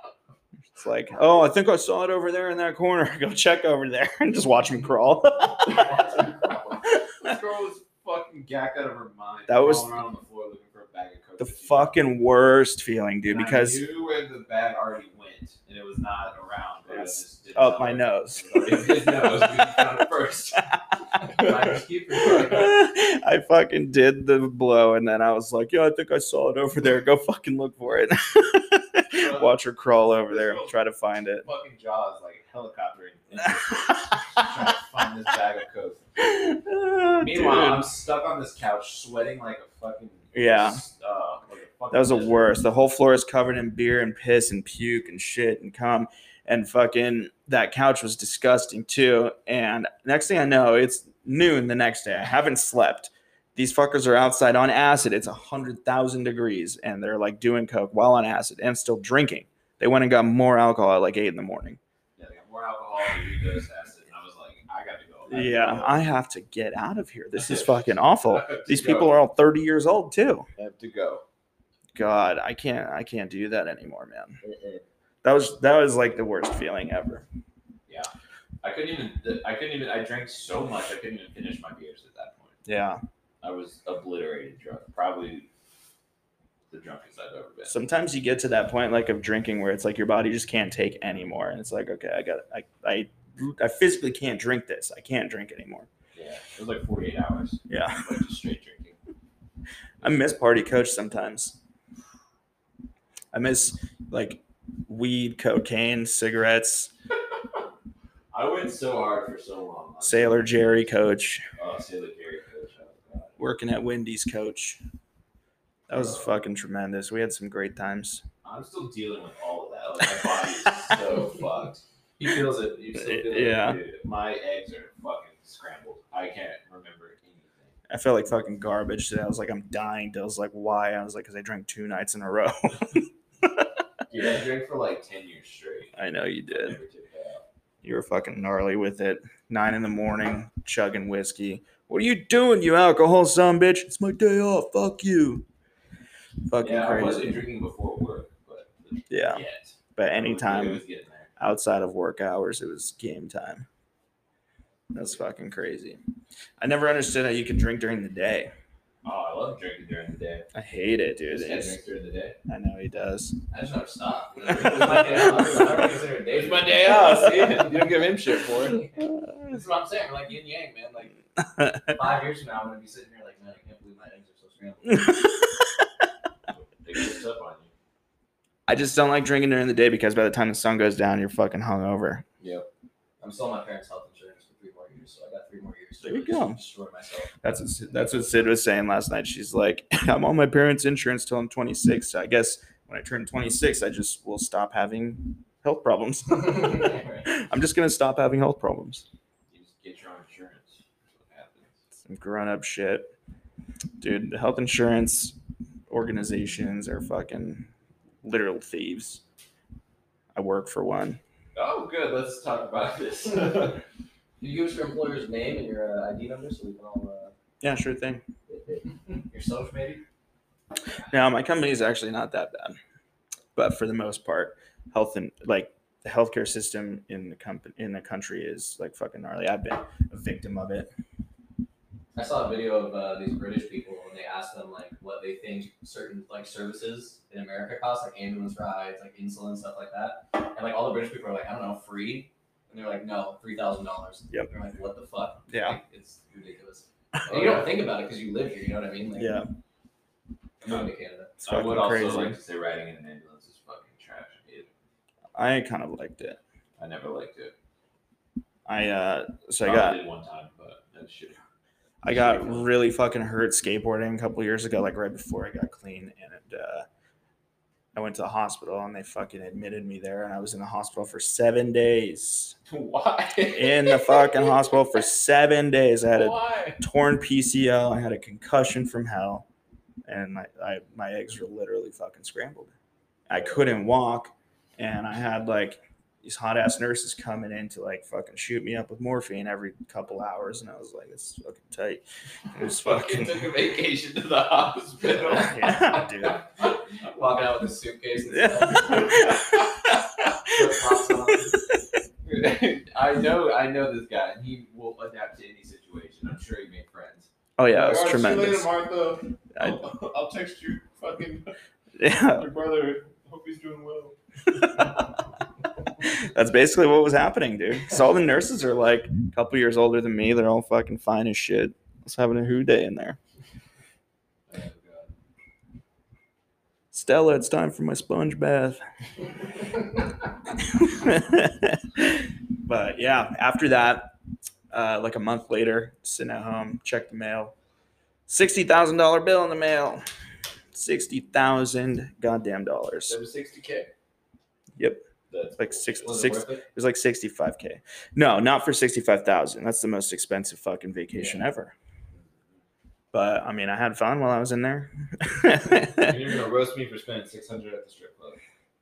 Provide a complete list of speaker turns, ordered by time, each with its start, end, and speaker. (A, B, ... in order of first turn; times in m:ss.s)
0:00.8-0:05.9 A
0:05.8-0:06.6 B
0:07.2-0:12.0 C
0:09.5-0:09.9 A
0:11.4-0:13.8 A
0:13.3-0:20.7 C
0:16.9-0:18.9 A
0:21.3-0:22.8 B
0:22.4-0:31.4 A
0:29.1-0:29.6 C
0:30.3-0:30.7 C
0:31.4-0:36.3 C
0:36.2-0:37.8 A
0:37.2-0:42.6 C
0:40.3-0:40.8 A
0:41.9-1:01.8 A
1:02.2-1:06.0 C
1:05.3-1:10.4 A
1:07.3-1:09.2 C
1:10.6-1:11.2 C
1:12.0-1:14.4 A
1:14.4-1:14.8 C
1:15.2-1:17.2 A
1:18.6-1:22.6 C
1:22.6-1:23.0 A
1:23.4-1:25.5 C
1:26.7-1:27.8 C
1:27.7-1:35.9 A
1:36.1-1:39.0 C
1:37.7-1:38.1 A
1:40.0-1:41.6 A
1:43.3-1:46.9 A
1:48.3-1:50.9 C
1:50.0-1:51.4 A
1:51.6-1:53.4 C
1:53.4-1:54.8 A
1:55.9-1:58.2 A
1:55.9-1:56.2 C
1:58.4-2:07.8 C
2:02.9-2:03.8 A
2:07.9-2:13.6 A
2:14.1-2:17.4 C
2:16.0-2:16.8 A
2:17.8-2:25.4 A
2:26.5-2:27.4 A
2:26.6-2:31.3 C
2:29.1-2:29.4 A
2:30.0-2:30.8 A
2:31.4-2:33.6 A
2:34.9-2:36.0 A
2:36.6-2:38.5 A
2:39.0-2:40.4 C
2:40.5-2:41.8 A
2:41.3-2:42.4 C
2:42.5-2:43.3 A
2:43.5-2:51.2 B
2:44.8-2:48.8 C
2:51.9-2:55.2 B
2:55.0-2:55.3 A
2:56.5-2:57.7 C
2:58.7-3:02.2 A
3:02.4-3:02.6 C
3:03.2-3:08.6 B
3:06.0-3:06.6 A
3:07.4-3:19.0 A
3:16.4-3:17.2 B
3:19.5-3:21.8 C
3:22.0-3:23.1 A
3:24.0-3:25.4 A
3:25.9-3:27.7 A
3:28.2-3:29.2 A
3:30.3-3:31.2 A
3:31.6-3:33.8 C
3:34.4-3:37.3 B
3:37.6-3:38.2 A
3:38.5-3:38.8 C
3:39.1-3:40.0 B
3:41.1-3:42.8 A
3:43.6-3:50.9 A
3:52.1-4:09.3 B
4:05.5-4:05.8 A
4:07.3-4:07.7 C
4:09.1-4:09.5 A
4:10.6-4:11.3 B
4:11.4-4:12.4 A
4:11.4-4:14.7 C
4:15.3-4:16.4 A
4:16.8-4:17.5 C
4:18.6-4:20.0 A
4:19.6-4:21.4 C
4:22.0-4:26.9 A
4:22.0-4:22.7 C
4:27.9-4:32.6 A
4:32.7-4:34.2 C
4:33.5-4:39.4 A
4:36.1-4:36.8 C
4:40.1-4:42.7 A
4:43.3-4:53.5 A
4:52.8-4:55.8 C
4:55.3-4:56.4 A
4:55.8-4:56.4 B
4:57.0-4:59.2 B
4:58.3-4:59.3 A
4:59.0-4:59.4 C
5:00.5-5:01.5 C
5:02.2-5:11.5 C
5:07.6-5:08.7 A
5:12.0-5:12.5 A
5:12.3-5:14.2 C
5:16.0-5:23.2 A
5:24.5-5:25.1 C
5:26.9-5:28.8 A
5:30.5-5:34.1 A
5:34.7-5:37.5 A
5:38.3-5:40.0 A
5:40.7-5:43.2 A
5:43.0-5:43.9 C
5:44.8-5:45.0 A
5:45.3-5:46.4 C
5:45.6-5:51.7 A
5:46.0-5:46.6 B
5:52.1-5:52.6 C
5:53.1-5:56.1 A
5:55.9-5:58.4 C